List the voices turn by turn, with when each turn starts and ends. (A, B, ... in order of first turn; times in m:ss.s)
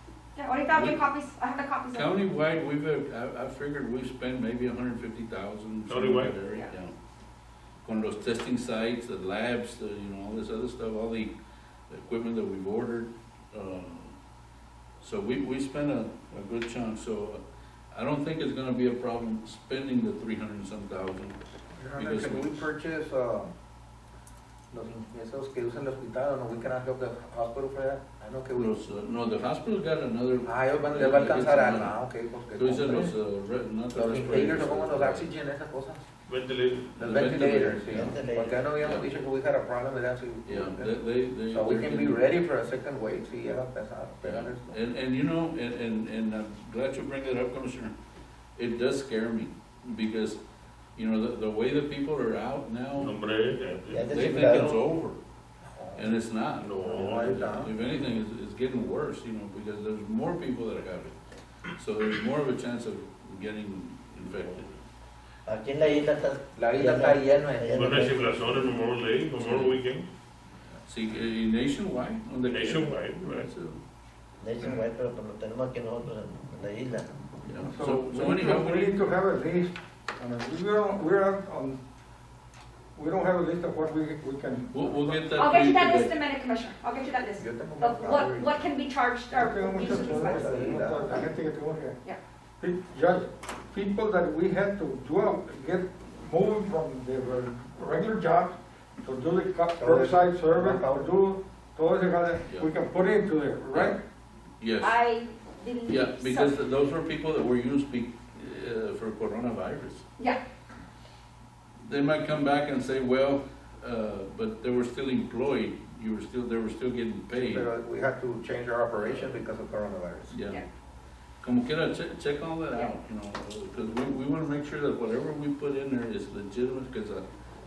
0:00.4-0:02.2 A
0:00.7-0:01.0 B
0:01.9-0:06.9 B
0:05.9-0:06.3 C
0:07.8-0:11.3 B
0:11.9-0:14.1 B
0:15.0-0:17.4 B
0:17.9-0:21.4 B
0:21.8-0:23.5 D
0:22.0-0:22.7 B
0:24.7-0:28.7 D
0:28.5-0:32.0 B
0:30.4-0:33.1 D
0:32.5-0:35.4 B
0:33.9-0:36.0 D
0:36.3-0:37.1 C
0:36.9-0:38.2 B
0:37.0-0:44.8 D
0:37.9-0:38.6 E
0:38.8-0:39.1 B
0:40.4-0:42.3 B
0:44.2-0:47.9 B
0:48.6-0:50.4 B
0:51.0-0:53.1 B
0:53.0-0:54.1 C
0:53.9-0:54.8 E
0:54.0-0:55.2 B
0:55.6-0:56.1 D
0:55.9-1:01.2 B
0:56.6-0:57.4 C
0:56.8-0:57.7 D
1:01.7-1:04.8 B
1:05.4-1:08.1 E
1:06.6-1:08.2 D
1:07.7-1:10.1 C
1:09.4-1:09.8 B
1:10.7-1:13.8 B
1:12.4-1:13.5 C
1:14.4-1:17.1 E
1:17.4-1:19.0 B
1:17.7-1:21.8 F
1:22.9-1:24.9 F
1:24.7-1:26.1 B
1:25.3-1:30.4 A
1:27.4-1:28.7 D
1:29.3-1:32.0 F
1:29.7-1:31.3 D
1:32.6-1:44.0 F
1:39.8-1:40.9 D
1:43.7-1:44.0 B
1:44.6-1:45.0 B
1:44.8-1:46.6 A
1:45.9-1:50.0 B
1:51.8-1:57.7 B
1:57.3-2:00.3 D
1:59.0-1:59.4 B
2:00.3-2:00.6 B
2:01.4-2:07.2 B